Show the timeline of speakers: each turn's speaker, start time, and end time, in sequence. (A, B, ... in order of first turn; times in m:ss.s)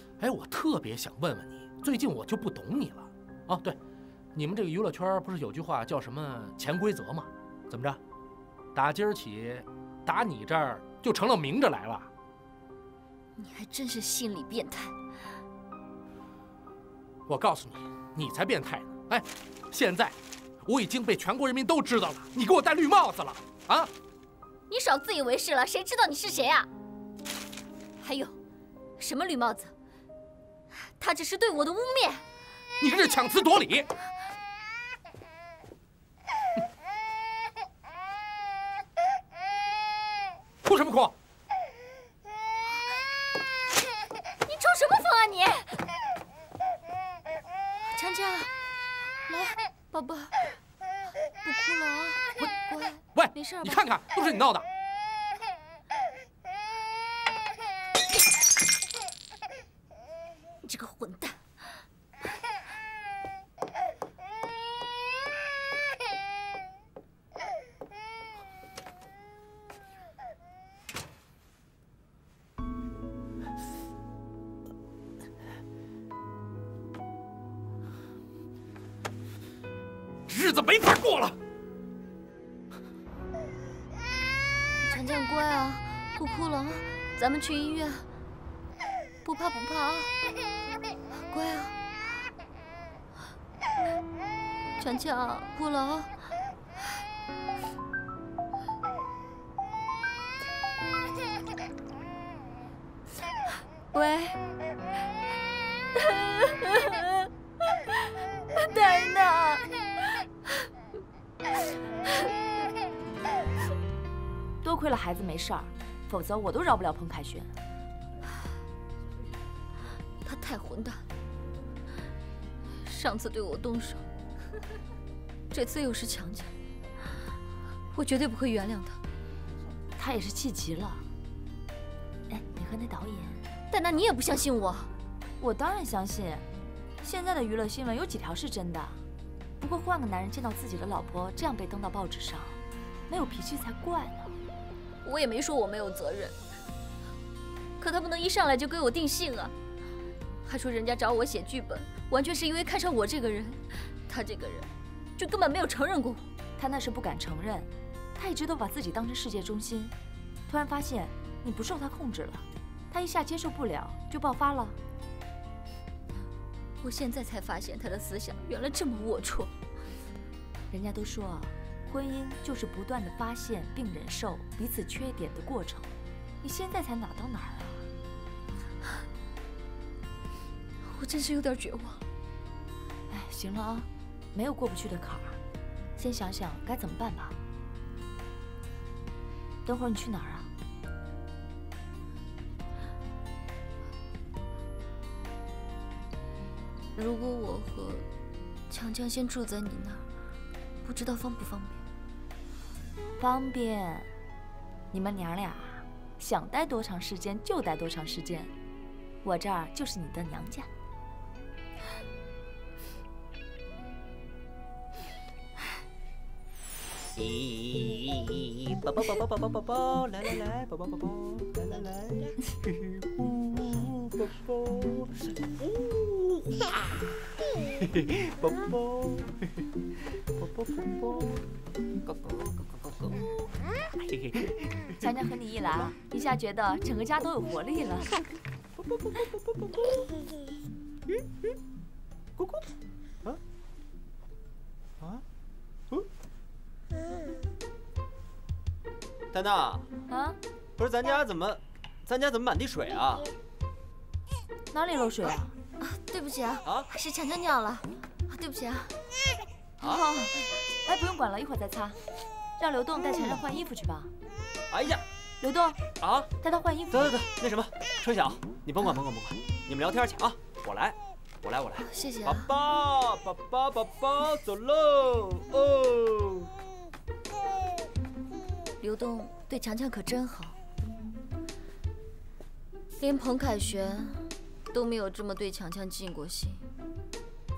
0:00.2-0:03.8 A
0:04.3-0:08.0 A
0:08.7-0:12.1 A
0:13.4-0:14.9 B
0:17.3-0:23.9 A
0:24.7-0:26.7 B
0:28.0-0:28.4 B
0:29.0-0:29.7 B
0:31.0-0:32.2 B
0:32.8-0:33.9 A
0:40.6-0:41.1 A
0:44.4-0:45.8 B
0:47.9-0:48.5 B
0:49.3-0:50.5 B
0:51.4-0:53.8 B
0:53.1-0:54.7 A
1:00.6-1:01.4 B
1:20.3-1:21.4 A
1:24.8-1:28.1 B
1:29.2-1:30.1 B
1:31.3-1:31.8 B
1:34.8-1:36.1 B
1:43.9-1:44.4 B
1:46.0-1:47.3 B
1:48.6-1:49.6 B
1:54.6-1:57.5 C
2:00.2-2:01.0 B
2:02.8-2:04.0 B
2:05.5-2:06.5 B
2:07.9-2:09.0 B
2:10.0-2:11.0 C
2:12.3-2:13.4 C
2:13.7-2:14.9 B
2:15.4-2:16.4 C
2:17.0-2:19.0 C
2:19.6-2:22.6 C
2:23.1-2:24.3 C
2:25.0-2:26.4 B
2:27.8-2:29.5 B
2:30.4-2:36.3 B
2:36.6-2:39.9 C
2:40.5-2:44.8 C
2:46.8-2:49.5 B
2:50.7-2:55.9 C
2:56.4-2:57.9 C
3:00.8-3:02.0 B
3:03.1-3:05.4 C
3:06.0-3:07.4 C
3:09.6-3:10.5 C
3:16.9-3:18.1 B
3:18.7-3:20.0 B
3:20.8-3:21.8 B
3:23.2-3:24.1 C
3:24.9-3:28.5 C
3:29.2-3:30.7 C
3:37.2-3:46.8 D
3:47.6-3:49.5 D
3:50.4-3:51.4 D
3:52.1-3:53.3 D
3:54.0-3:54.9 D
3:55.0-3:58.1 C
4:02.4-4:02.6 D
4:09.3-4:09.9 D
4:10.1-4:10.4 C
4:10.8-4:13.3 D
4:14.7-4:15.5 C
4:15.8-4:18.9 B
4:19.8-4:20.4 B
4:20.8-4:22.0 C
4:22.6-4:24.1 C
4:24.7-4:25.0 D
4:25.4-4:25.8 C
4:26.0-4:26.3 D
4:26.4-4:27.2 C
4:26.9-4:36.5 D
4:31.8-4:32.5 B
4:38.8-4:40.6 B
4:43.0-4:46.6 B